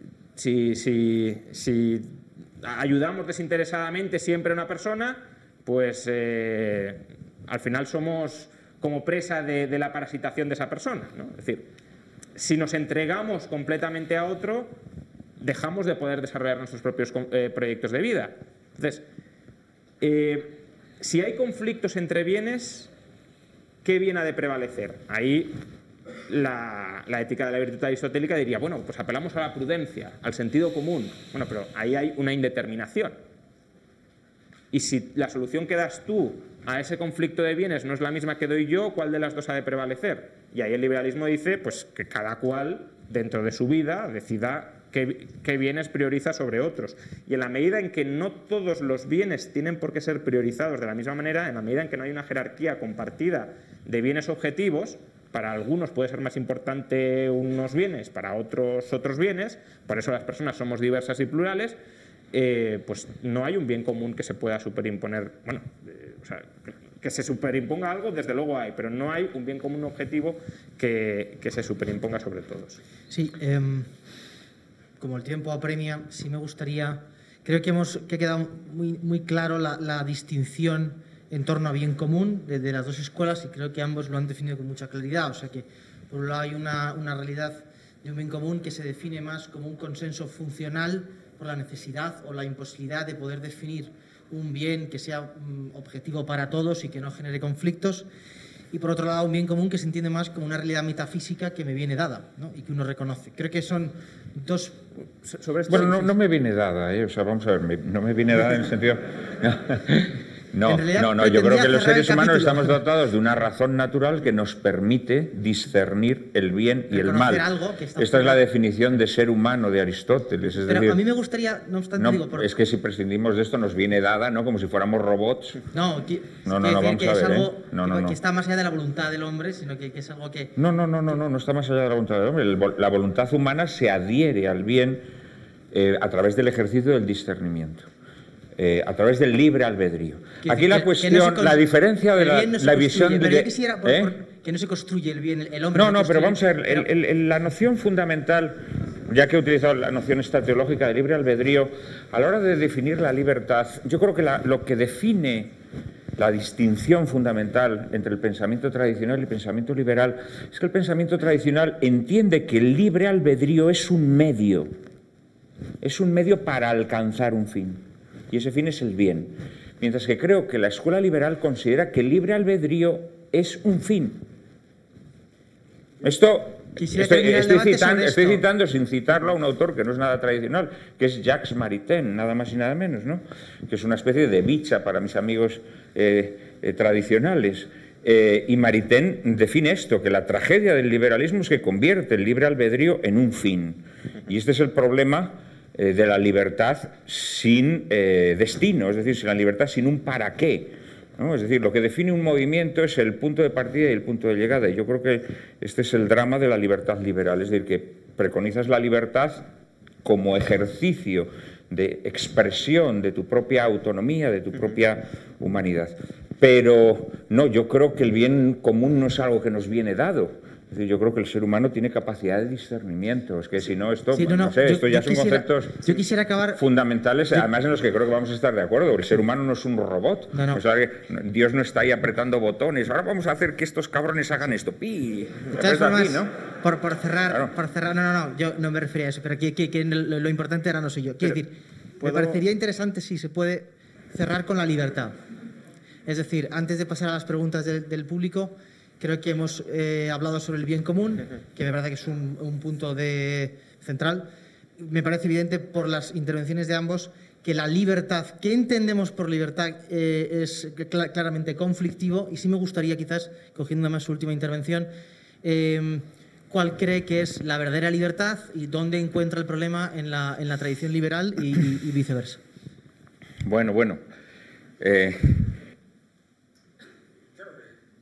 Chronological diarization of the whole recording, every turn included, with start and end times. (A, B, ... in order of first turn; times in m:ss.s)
0:00.4-0:11.7 A
0:12.4-0:14.8 A
0:15.4-0:19.0 A
0:20.0-0:22.9 A
0:23.8-0:25.6 A
0:26.3-0:33.2 A
0:34.7-1:01.8 A
1:02.3-1:12.8 A
1:13.1-1:13.9 B
1:15.0-1:38.1 B
1:38.7-1:44.8 B
1:45.4-1:45.9 A
1:45.7-2:01.0 C
1:50.6-1:52.8 B
1:56.9-1:58.4 B
2:00.6-2:02.5 B
2:02.0-2:05.6 C
2:05.7-2:10.5 B
2:06.4-2:08.2 C
2:10.6-2:15.1 C
2:15.7-2:17.9 C
2:18.6-2:24.1 C
2:20.4-2:26.9 B
2:25.7-2:35.5 C
2:36.2-2:44.7 C
2:45.8-2:54.2 C
2:56.0-3:29.4 C
2:56.8-2:58.4 B
3:30.0-3:56.3 C
3:44.1-3:46.6 B
3:50.3-3:50.6 B
3:55.5-4:05.2 B
3:57.3-3:57.5 C
4:02.0-4:02.4 A
4:06.0-4:14.3 B
4:14.8-4:24.9 B
4:25.4-4:32.4 B
4:33.4-4:34.0 C
4:34.8-4:35.5 C